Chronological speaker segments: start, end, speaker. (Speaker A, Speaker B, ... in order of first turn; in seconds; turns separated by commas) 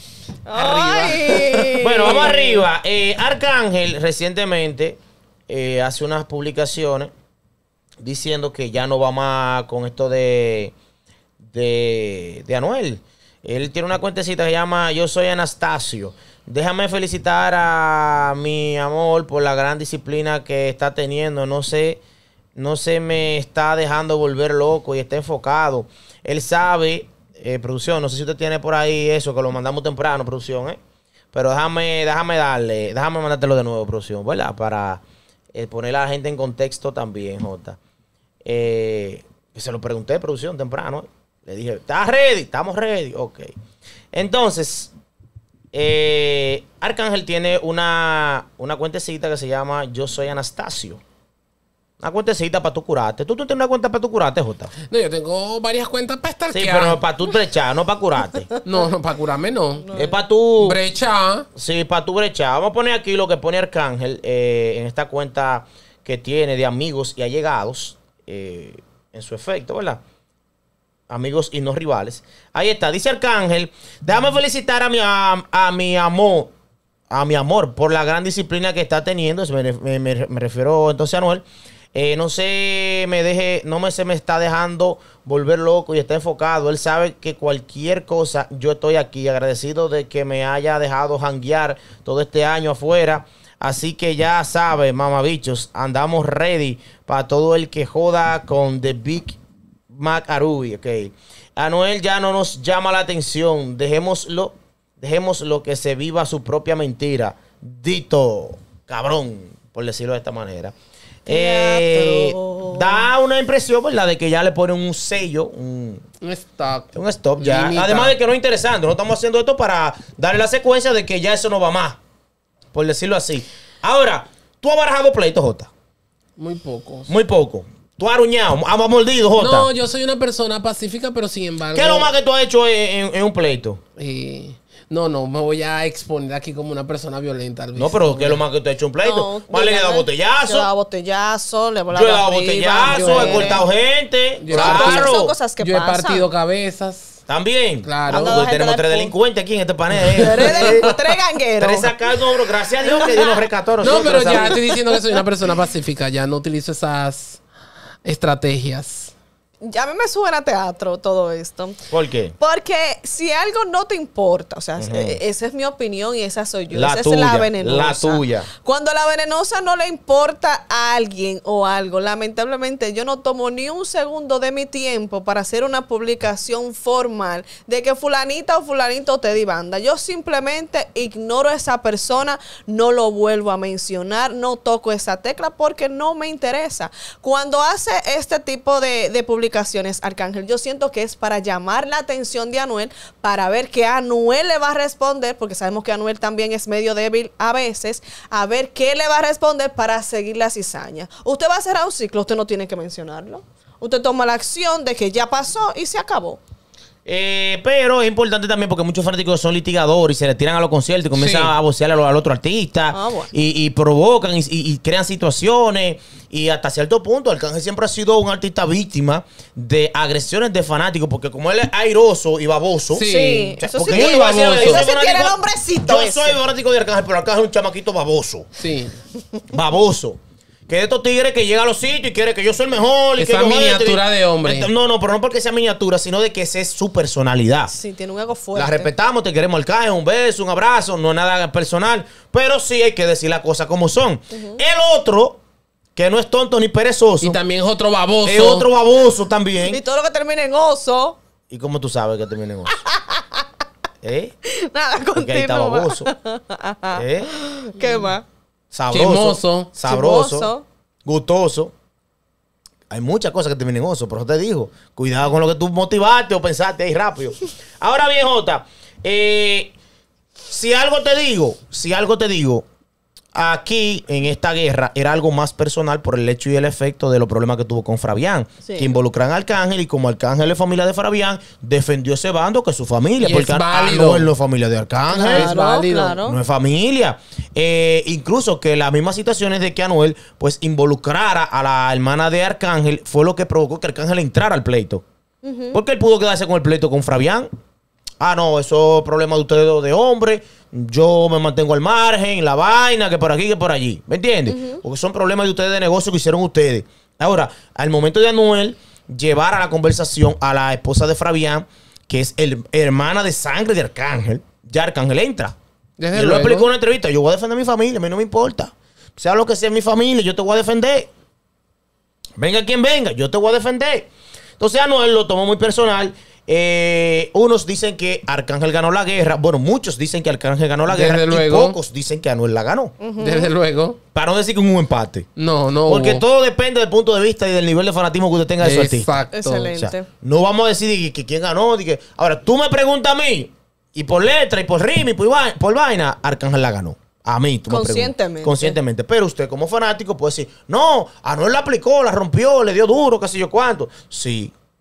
Speaker A: 0.5-2.6, Speaker B: 0.5-2.4, Speaker C: 1.8-7.1, Speaker C: 8.0-10.7, Speaker C: 11.4-22.0, Speaker C: 22.6-30.8, Speaker C: 31.3-35.0, Speaker C: 35.5-37.8, Speaker C: 38.4-43.5, Speaker C: 44.1-44.9, Speaker C: 45.7-51.0, Speaker C: 52.0-54.7, Speaker B: 54.9-57.0, Speaker C: 56.5-58.5, Speaker B: 58.6-59.9, Speaker A: 59.9-60.1, Speaker C: 59.9-60.8, Speaker B: 60.6-61.4, Speaker C: 61.5-70.0, Speaker C: 71.1-76.5, Speaker C: 77.1-99.4, Speaker C: 99.9-110.7, Speaker A: 111.3-113.1, Speaker C: 111.3-116.0, Speaker B: 116.2-118.1, Speaker C: 116.9-122.0, Speaker C: 122.7-125.7, Speaker B: 126.4-127.1, Speaker C: 127.1-129.7, Speaker B: 129.4-132.1, Speaker C: 131.7-133.8, Speaker B: 134.0-138.4, Speaker C: 137.8-140.7, Speaker A: 139.0-143.7, Speaker C: 141.9-145.3, Speaker B: 142.8-143.6, Speaker B: 144.4-147.2, Speaker A: 144.5-146.3, Speaker C: 147.3-150.9, Speaker B: 147.8-148.4, Speaker A: 148.1-149.1, Speaker B: 150.0-151.0, Speaker A: 150.2-152.1, Speaker C: 151.6-154.6, Speaker A: 152.9-153.3, Speaker B: 153.8-157.4, Speaker A: 154.3-154.6, Speaker B: 158.0-159.1, Speaker A: 159.6-161.8, Speaker C: 161.9-162.3, Speaker A: 162.4-206.4, Speaker C: 164.8-165.2, Speaker C: 166.7-168.5, Speaker C: 207.0-223.1, Speaker B: 211.1-211.5, Speaker A: 212.9-213.3, Speaker B: 222.9-224.8, Speaker A: 223.0-226.4, Speaker C: 223.6-228.5, Speaker B: 228.6-229.0, Speaker C: 229.5-237.7, Speaker B: 233.2-234.7, Speaker A: 237.7-238.9, Speaker C: 238.5-245.4, Speaker A: 244.3-244.6, Speaker C: 245.9-247.4, Speaker B: 247.2-248.7, Speaker C: 248.2-249.8, Speaker A: 249.6-251.2, Speaker C: 251.5-252.7, Speaker A: 252.8-253.4, Speaker C: 254.0-254.3, Speaker A: 254.4-258.2, Speaker C: 255.1-256.1, Speaker C: 256.9-257.3, Speaker C: 258.7-260.5, Speaker B: 258.9-259.7, Speaker A: 259.8-260.6, Speaker C: 261.0-261.7, Speaker C: 262.9-269.7, Speaker C: 270.5-272.6, Speaker C: 273.3-285.5, Speaker A: 278.6-278.9, Speaker B: 283.2-284.3, Speaker A: 285.1-286.4, Speaker B: 285.3-286.2, Speaker C: 286.2-295.0, Speaker A: 295.4-295.8, Speaker C: 295.7-297.5, Speaker C: 298.2-315.5, Speaker A: 304.5-304.8, Speaker B: 316.0-316.7, Speaker C: 316.1-321.1, Speaker C: 322.4-332.9, Speaker B: 330.9-331.8, Speaker A: 333.0-333.5, Speaker B: 333.2-334.0, Speaker C: 334.1-335.3, Speaker B: 335.4-336.2, Speaker C: 335.9-339.2, Speaker B: 338.6-339.7, Speaker A: 339.3-340.1, Speaker C: 339.7-354.5, Speaker A: 347.7-348.8